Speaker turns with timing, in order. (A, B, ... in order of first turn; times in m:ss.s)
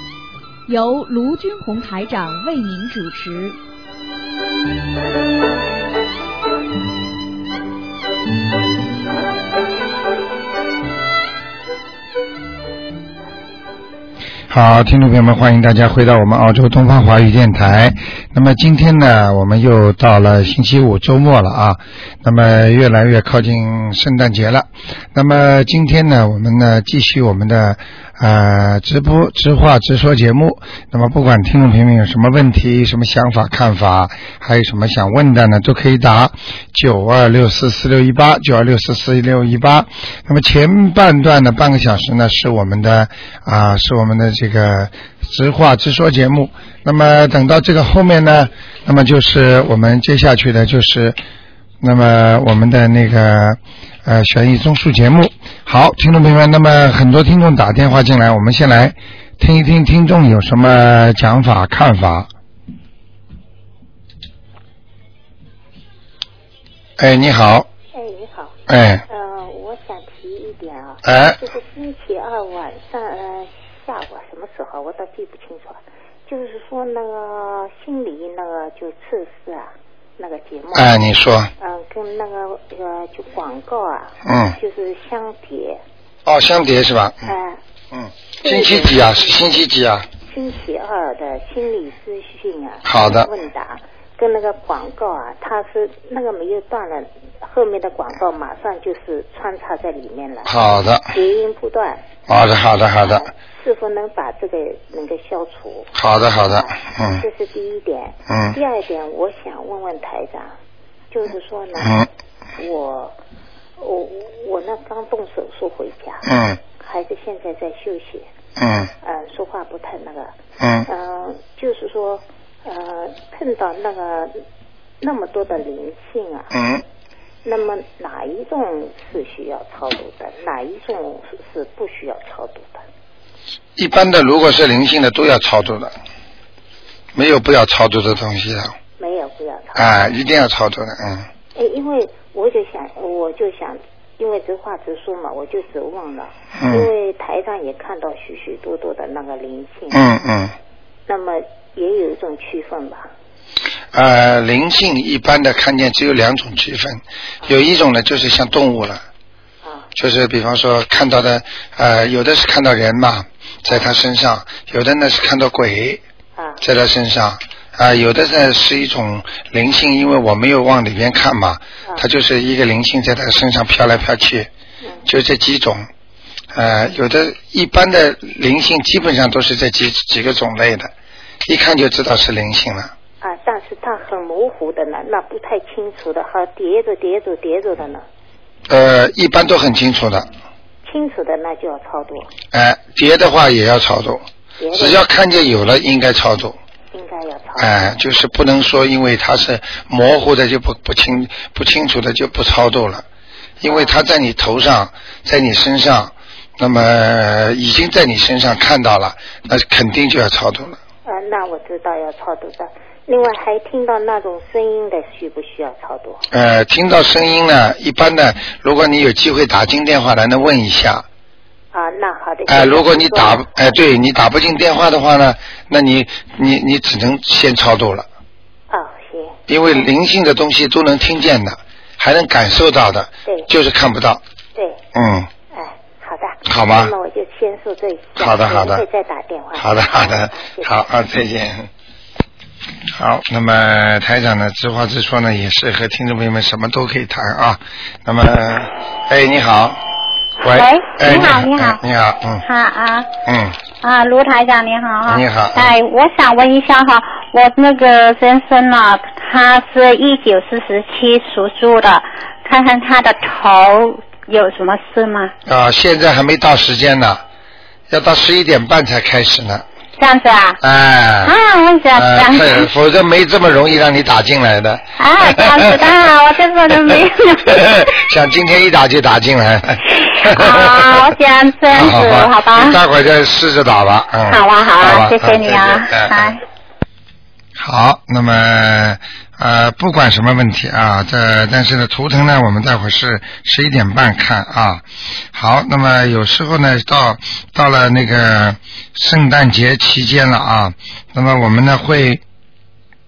0:00.7-0:03.6 A
0:14.5-0:51.2 B
0:51.8-1:02.3 B
1:07.0-1:07.7 B
1:07.9-1:08.6 C
1:08.7-1:09.0 B
1:09.1-1:21.0 C
1:11.0-1:11.4 B
1:20.7-1:21.5 B
1:21.6-1:25.8 C
1:24.2-1:24.6 B
1:26.2-1:27.3 B
1:27.2-1:27.6 C
1:27.9-1:30.1 B
1:28.4-1:29.6 C
1:30.3-1:40.5 C
1:32.8-1:33.3 B
1:40.4-1:41.1 B
1:41.1-1:42.0 C
1:42.3-1:43.2 B
1:43.0-1:45.9 C
1:45.9-1:47.2 B
1:46.5-1:50.5 C
1:48.3-1:48.6 B
1:51.1-1:51.9 C
1:51.8-1:52.1 B
1:52.6-1:53.2 C
1:53.8-1:56.2 C
1:56.2-1:56.6 B
1:56.8-1:58.3 C
1:58.6-1:58.9 B
1:59.0-2:00.3 C
2:00.6-2:00.9 B
2:00.9-2:04.3 C
2:05.0-2:06.5 C
2:06.5-2:06.8 B
2:07.4-2:12.8 C
2:13.8-2:15.9 B
2:17.1-2:18.7 B
2:19.0-2:20.1 C
2:19.8-2:21.3 B
2:21.6-2:30.0 C
2:26.6-2:26.9 B
2:29.9-2:30.5 B
2:31.1-2:33.1 C
2:33.9-2:39.0 B
2:39.6-2:39.9 C
2:39.9-2:46.0 B
2:46.4-2:46.6 C
2:46.6-2:54.5 B
2:55.0-2:55.9 B
2:56.5-3:00.9 B
3:01.4-3:02.9 B
3:03.2-3:08.0 C
3:08.7-3:10.3 B
3:10.8-3:12.3 C
3:12.5-3:14.2 B
3:14.6-3:15.0 C
3:14.7-3:16.6 B
3:16.9-3:17.9 C
3:17.6-3:23.0 B
3:23.6-3:30.8 B
3:23.6-3:23.9 C
3:31.0-3:36.2 C
3:36.3-3:41.0 B
3:41.7-3:43.7 C
3:42.5-3:48.0 B
3:48.7-3:49.9 C
3:49.5-3:54.2 B
3:54.9-3:55.3 B
3:55.5-4:00.9 C
3:56.4-3:56.9 B
3:58.2-3:58.8 B
3:59.6-4:01.7 B
4:02.9-4:09.8 B
4:10.4-4:12.4 B
4:10.5-4:11.8 D
4:12.4-4:13.1 D
4:13.2-4:13.6 B
4:13.8-4:25.3 D
4:15.0-4:15.7 B
4:25.4-4:27.2 B
4:27.9-4:29.6 B
4:30.0-4:30.6 D
4:30.6-4:31.3 B
4:31.2-4:32.7 D
4:31.9-4:36.0 B
4:35.0-4:37.9 D
4:36.7-4:41.1 B
4:39.9-4:42.8 D
4:41.7-4:46.3 B
4:44.3-4:46.4 D
4:47.6-5:02.2 B